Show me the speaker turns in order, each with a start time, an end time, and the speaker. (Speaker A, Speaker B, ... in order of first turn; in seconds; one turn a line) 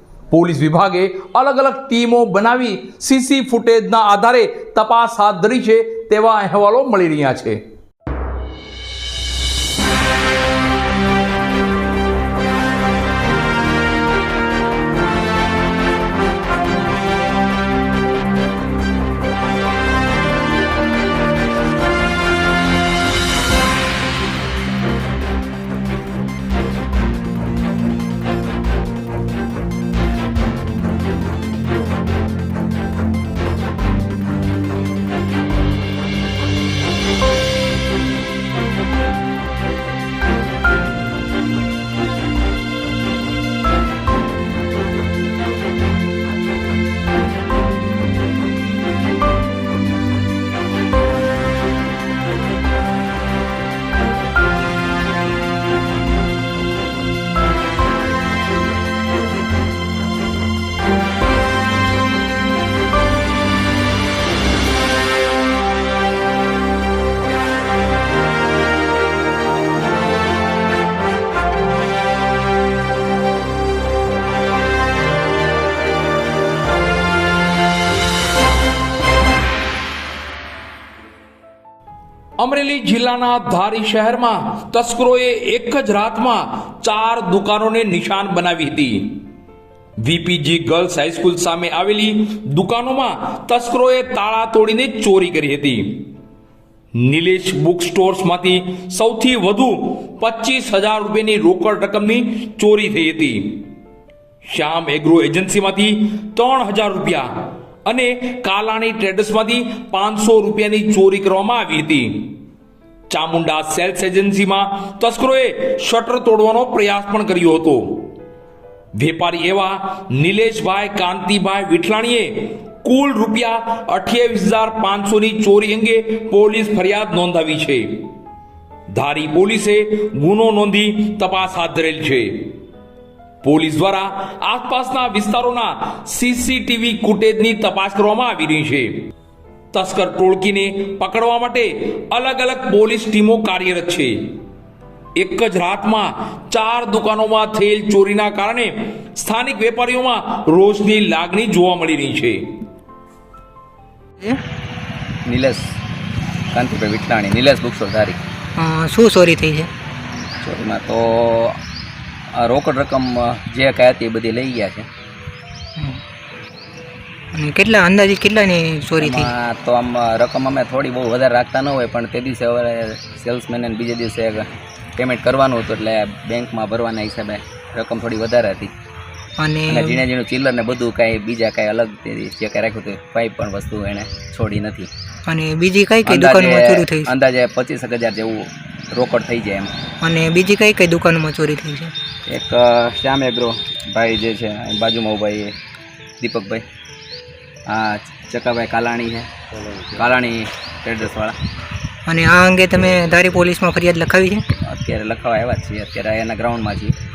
Speaker A: 0.3-7.6
Speaker A: 82.4-89.2
Speaker A: 90.0-96.0
Speaker A: 97.0-103.6
Speaker A: 104.5-107.3
Speaker A: 107.9-112.3
Speaker A: 113.1-118.0
Speaker A: 119.0-128.0
Speaker A: 128.9-132.5
Speaker A: 133.4-139.0
Speaker A: 139.7-144.2
Speaker A: 145.2-152.5
Speaker B: 155.2-155.8
Speaker B: 156.5-158.2
Speaker C: 158.6-159.7
Speaker B: 160.4-161.6
Speaker B: 162.3-164.9
Speaker C: 167.3-169.3
Speaker B: 169.0-178.7
Speaker C: 179.4-180.0
Speaker B: 179.7-184.9
Speaker C: 185.2-187.1
Speaker B: 186.0-189.7
Speaker C: 190.0-191.9
Speaker B: 192.3-195.5
Speaker B: 196.2-196.6
Speaker B: 197.7-201.3
Speaker C: 202.1-204.4
Speaker B: 204.6-206.9